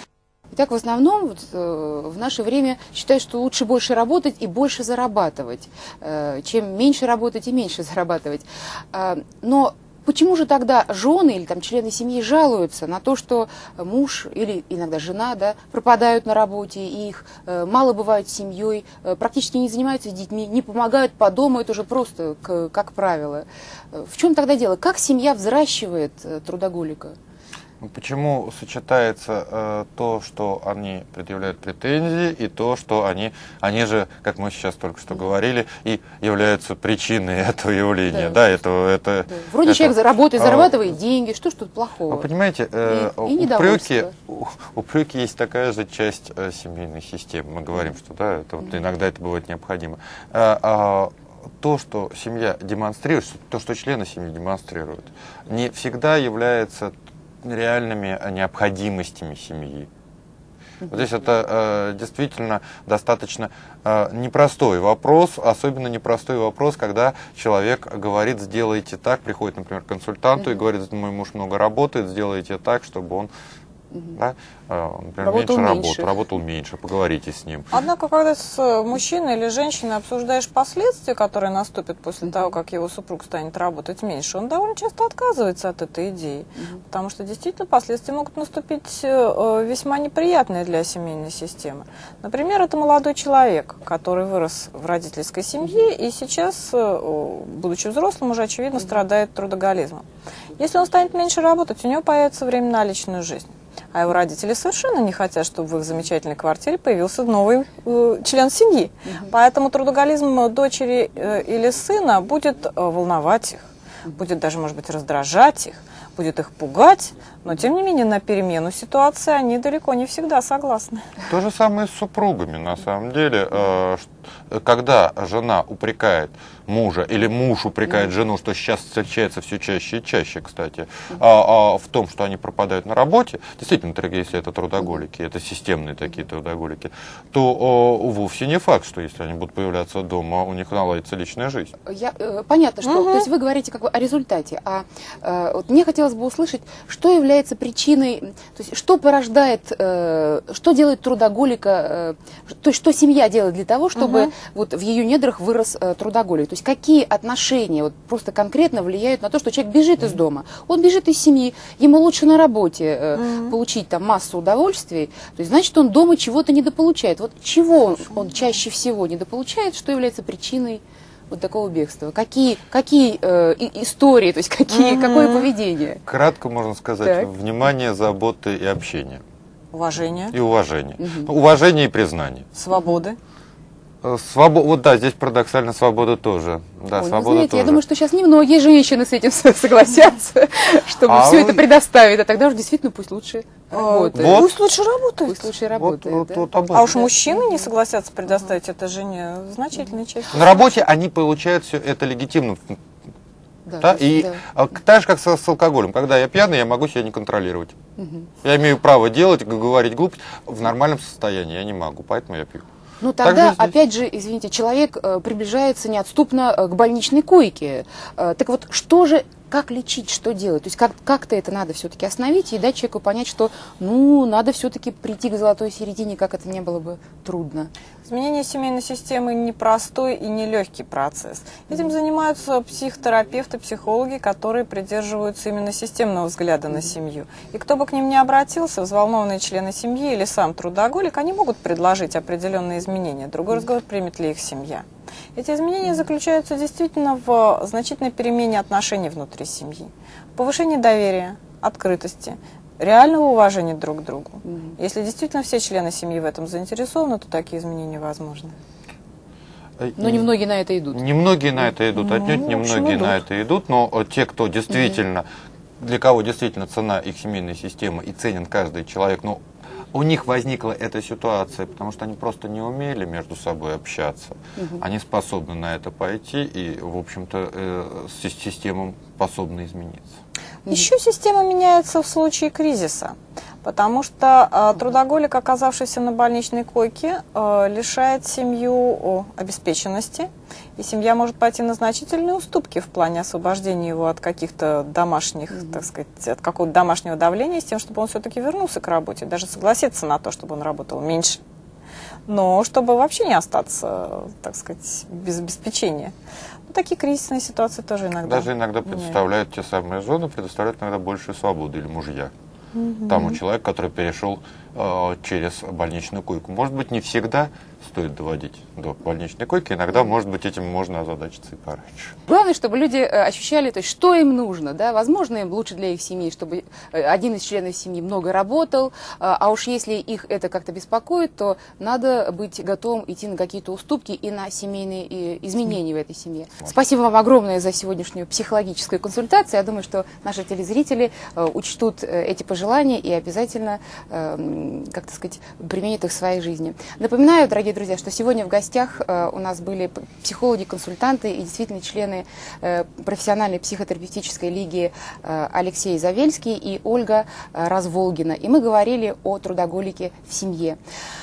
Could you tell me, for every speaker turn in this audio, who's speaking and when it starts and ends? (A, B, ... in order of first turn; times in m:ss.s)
0:00.5-0:27.2 A
0:27.8-0:40.8 B
0:38.1-0:38.4 A
0:39.3-0:42.3 A
0:42.1-0:59.9 B
0:42.8-0:44.1 A
1:00.9-1:13.3 B
1:14.2-1:17.7 B
1:15.2-1:16.1 A
1:17.7-1:40.0 C
1:40.6-2:01.1 C
1:49.0-1:49.3 A
2:01.3-2:21.7 B
2:21.8-2:56.0 A
2:22.8-2:23.2 C
2:34.0-2:34.3 C
2:43.1-2:43.5 C
2:54.7-2:55.5 C
2:56.1-2:59.2 B
2:57.0-2:57.3 A
2:59.7-3:00.3 C
3:00.3-3:02.5 B
3:01.0-3:01.3 A
3:02.5-3:03.2 C
3:02.7-3:03.0 A
3:04.0-3:07.8 B
3:06.9-3:14.5 A
3:11.1-3:11.6 B
3:13.7-3:15.5 C
3:14.1-3:14.5 B
3:15.2-3:17.6 A
3:15.7-3:17.0 B
3:16.7-3:20.4 C
3:20.3-3:22.8 B
3:23.6-3:24.4 A
3:23.8-3:27.8 B
3:28.0-3:28.3 A
3:28.4-3:32.7 B
3:33.0-3:47.7 A
3:33.2-3:33.7 B
3:48.0-4:18.6 C
4:14.4-4:14.7 A
4:19.8-4:20.3 B
4:20.0-4:21.0 A
4:20.9-4:25.3 B
4:22.0-4:23.2 A
4:25.8-4:40.1 B
4:34.6-4:34.8 A
4:40.7-5:01.4 C
4:55.5-4:55.8 A
5:02.3-5:06.1 C
5:06.7-5:09.2 C
5:08.2-5:12.3 B
5:12.8-5:13.3 C
5:13.1-5:22.1 B
5:22.3-6:00.8 A